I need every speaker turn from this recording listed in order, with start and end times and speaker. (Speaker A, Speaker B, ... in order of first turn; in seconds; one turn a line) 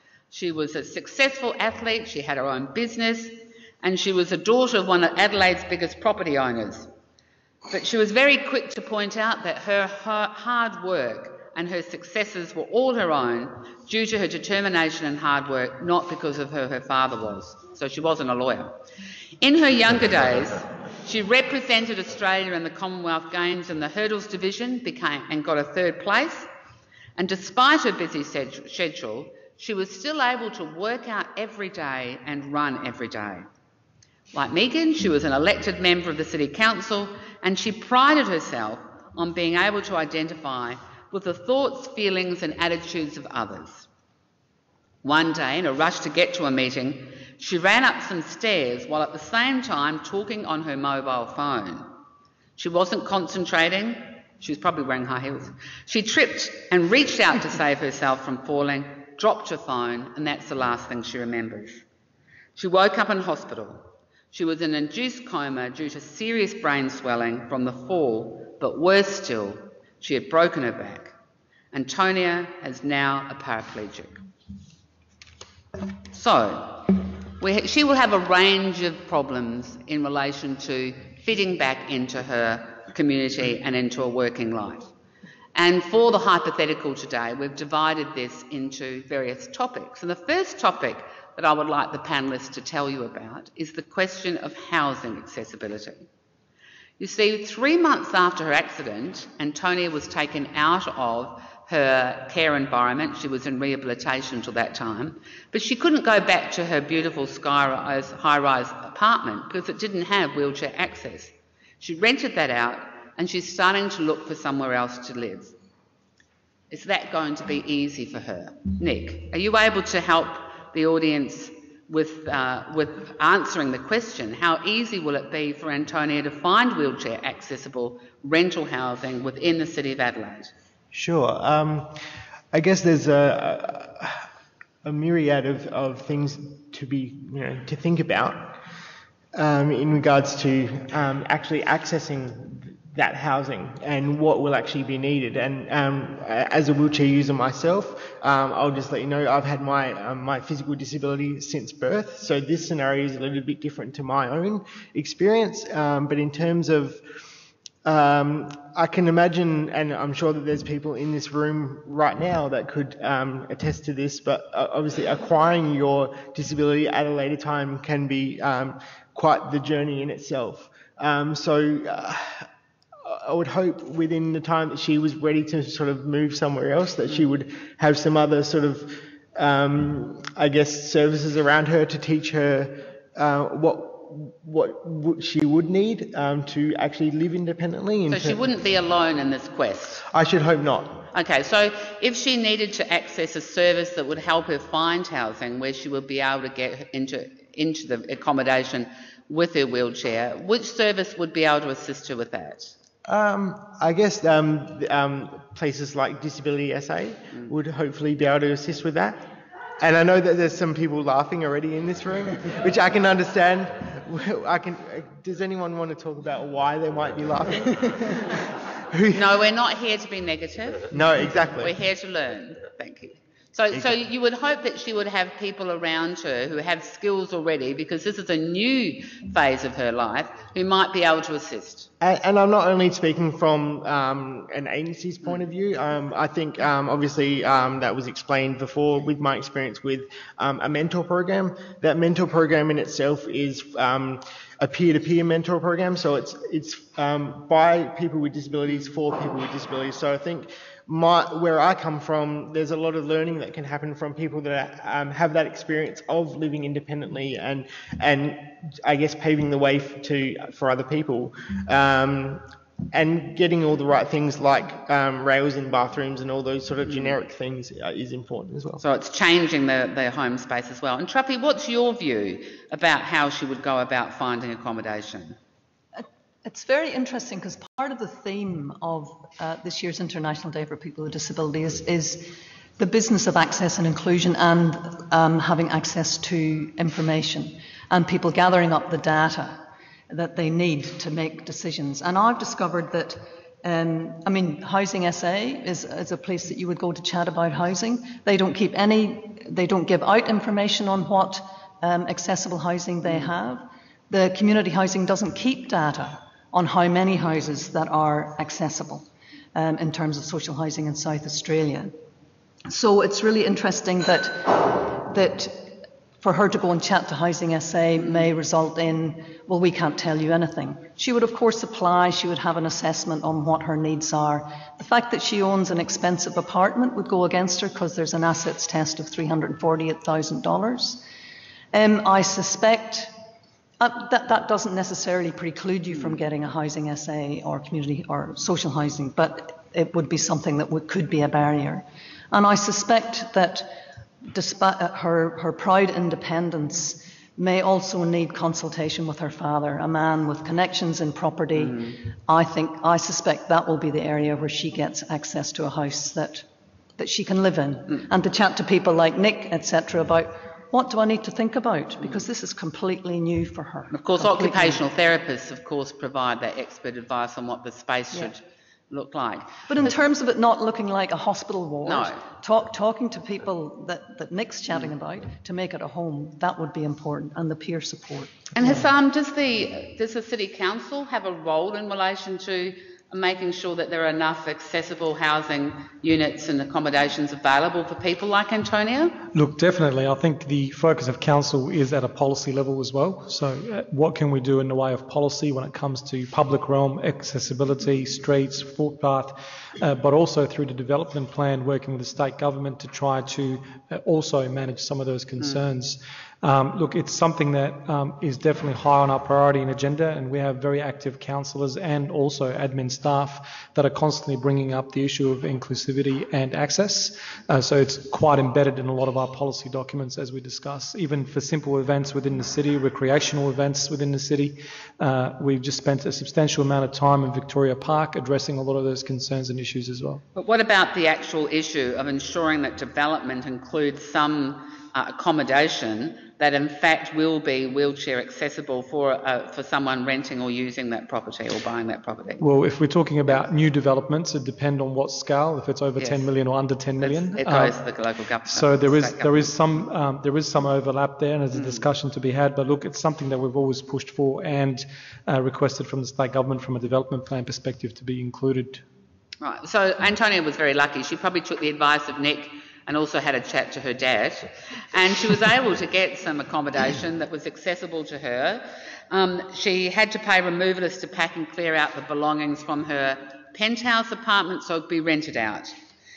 Speaker A: 0.3-6.9
Speaker A: 7.7-18.8
Speaker A: 19.4-26.5
Speaker A: 27.2-33.5
Speaker A: 34.3-43.9
Speaker A: 45.0-51.9
Speaker A: 52.6-61.8
Speaker A: 62.6-71.1
Speaker A: 71.7-74.2
Speaker A: 76.1-84.9
Speaker A: 85.5-96.1
Speaker A: 97.0-115.6
Speaker A: 116.7-130.5
Speaker B: 130.9-132.0
Speaker B: 132.5-134.2
Speaker B: 134.8-138.6
Speaker B: 139.3-157.0
Speaker B: 157.8-172.5
Speaker B: 173.0-188.5
Speaker A: 188.1-190.1
Speaker B: 190.1-191.1
Speaker A: 191.1-202.8
Speaker B: 203.1-209.2
Speaker B: 209.8-219.3
Speaker A: 219.1-221.0
Speaker B: 220.9-221.7
Speaker A: 221.6-231.9
Speaker B: 232.0-268.8
Speaker A: 268.8-275.4
Speaker C: 275.9-311.9
Speaker C: 312.7-331.1
Speaker C: 331.7-333.1
Speaker C: 333.8-356.5
Speaker A: 351.6-351.9
Speaker C: 357.0-364.8
Speaker A: 363.9-369.9
Speaker C: 369.7-378.9
Speaker A: 371.9-372.2
Speaker A: 378.5-389.2
Speaker D: 389.3-430.2
Speaker A: 430.4-442.4
Speaker D: 442.4-447.8
Speaker A: 446.0-446.3
Speaker A: 447.0-449.5
Speaker D: 448.5-458.8
Speaker A: 451.5-451.9
Speaker A: 459.4-475.8